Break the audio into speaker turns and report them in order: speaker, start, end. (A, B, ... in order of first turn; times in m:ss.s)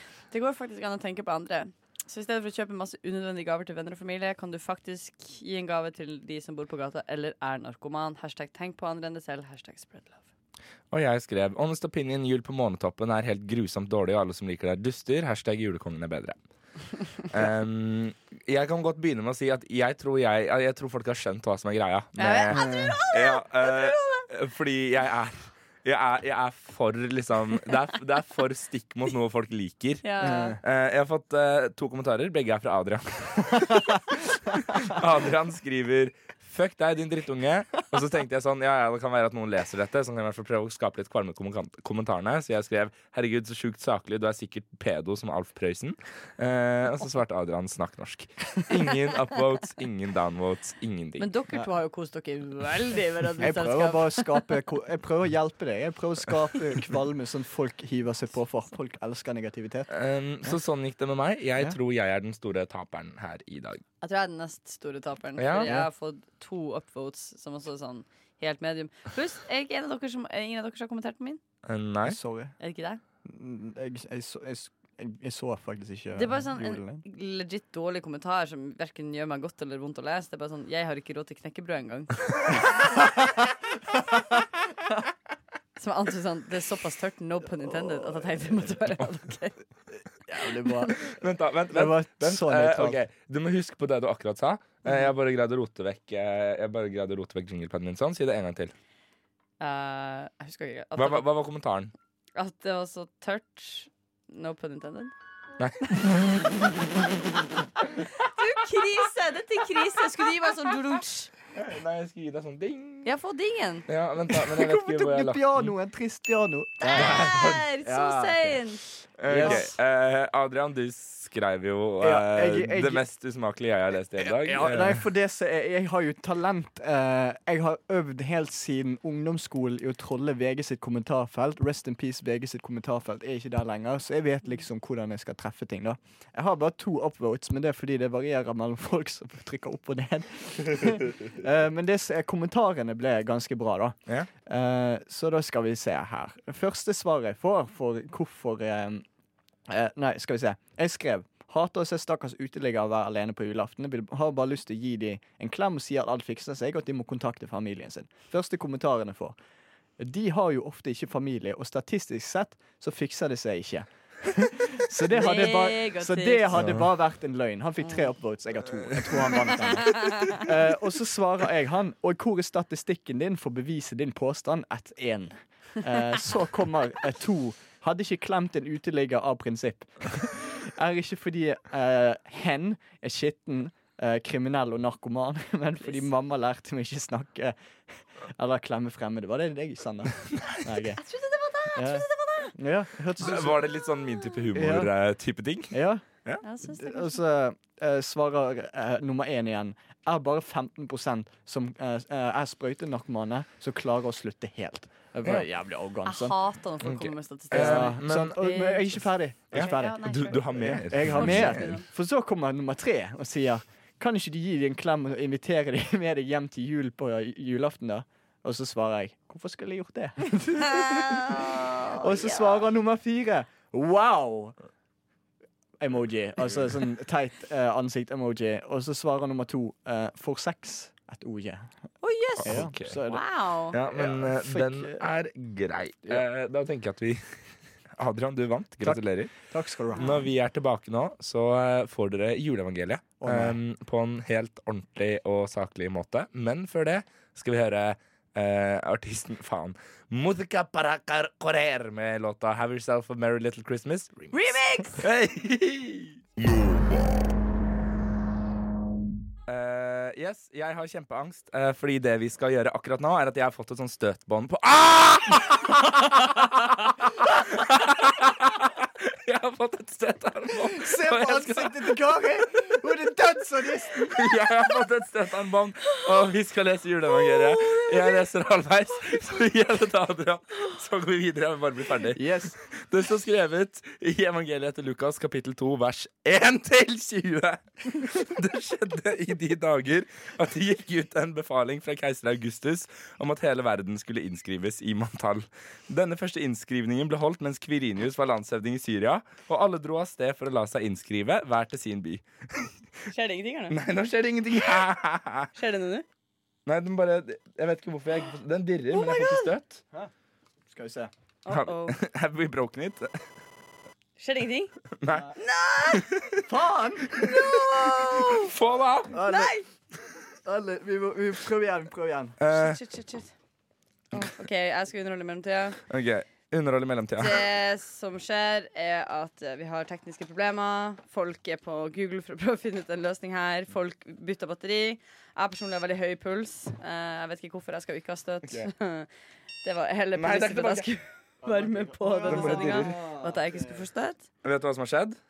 0:00.3-0:10.2 A
0:10.9-0:16.4 B
0:17.3-0:30.1 B
0:22.2-0:24.3 A
0:22.5-0:23.0 C
0:30.0-0:30.6 A
0:30.2-0:30.6 C
0:30.6-0:51.3 B
0:51.2-0:54.4 A
0:53.4-0:59.9 C
0:59.9-1:03.8 B
1:04.0-1:11.4 A
1:05.4-1:05.8 B
1:11.6-1:12.2 B
1:12.0-1:12.5 C
1:12.6-1:13.0 A
1:13.2-1:17.0 C
1:16.1-1:22.5 A
1:22.7-1:24.4 C
1:25.8-1:29.6 A
1:27.7-1:28.4 C
1:30.3-1:31.1 C
1:31.1-1:38.7 B
1:31.7-1:33.0 C
1:39.6-1:41.2 A
1:41.0-1:41.9 B
1:42.4-1:45.1 A
1:45.6-1:46.7 B
1:48.0-1:51.3 A
1:51.5-1:53.1 B
1:53.0-1:53.9 A
1:53.9-1:55.7 B
1:54.3-1:58.6 C
1:56.8-1:58.8 A
1:56.9-1:57.7 B
1:59.2-2:05.0 B
1:59.3-1:59.7 C
1:59.4-1:59.7 A
2:02.0-2:03.0 C
2:04.2-2:29.0 C
2:29.7-2:39.4 C
2:40.0-3:07.6 C
2:45.1-2:46.6 A
2:49.8-2:50.4 A
3:08.2-3:11.0 C
3:10.4-3:10.6 B
3:11.0-3:12.5 A
3:11.7-3:13.6 C
3:13.2-3:16.4 B
3:14.5-3:14.9 C
3:15.7-3:16.0 C
3:16.4-3:17.2 A
3:16.6-3:26.4 C
3:26.0-3:30.5 A
3:26.8-3:28.4 B
3:27.5-3:44.6 C
3:29.5-3:31.8 B
3:31.0-3:31.8 A
3:40.6-3:42.6 A
3:45.8-3:51.7 C
3:52.0-3:53.8 A
3:52.4-3:53.0 B
3:52.4-3:53.2 C
3:53.7-3:57.2 B
3:53.8-3:55.0 C
3:58.0-3:59.3 B
3:58.8-4:00.2 C
4:00.0-4:16.2 B
4:03.2-4:03.6 C
4:14.3-4:15.0 A
4:19.5-4:32.0 B
4:30.7-4:34.4 C
4:34.1-5:02.7 B
4:42.1-4:42.6 C
5:03.1-5:03.8 A
5:03.7-5:05.5 B
5:05.6-5:06.0 A
5:06.7-5:09.8 B
5:08.9-5:09.5 A
5:10.7-5:11.1 C
5:11.4-5:12.0 A
5:11.5-5:13.2 B
5:14.2-5:14.7 A
5:15.0-5:15.3 B
5:15.1-5:15.3 C
5:15.4-5:16.1 A
5:15.9-5:16.4 B
5:16.4-5:17.6 C
5:17.2-5:18.5 A
5:18.4-5:19.2 B
5:19.1-5:19.6 C
5:19.2-5:19.7 A
5:20.4-5:22.4 C
5:22.4-5:22.8 B
5:22.5-5:23.3 A
5:24.1-5:25.8 A
5:25.9-5:27.4 B
5:27.2-5:39.1 A
5:39.6-5:44.2 A
5:40.2-5:40.9 B
5:41.4-5:43.9 C
5:42.3-5:43.0 B
5:44.4-5:45.2 B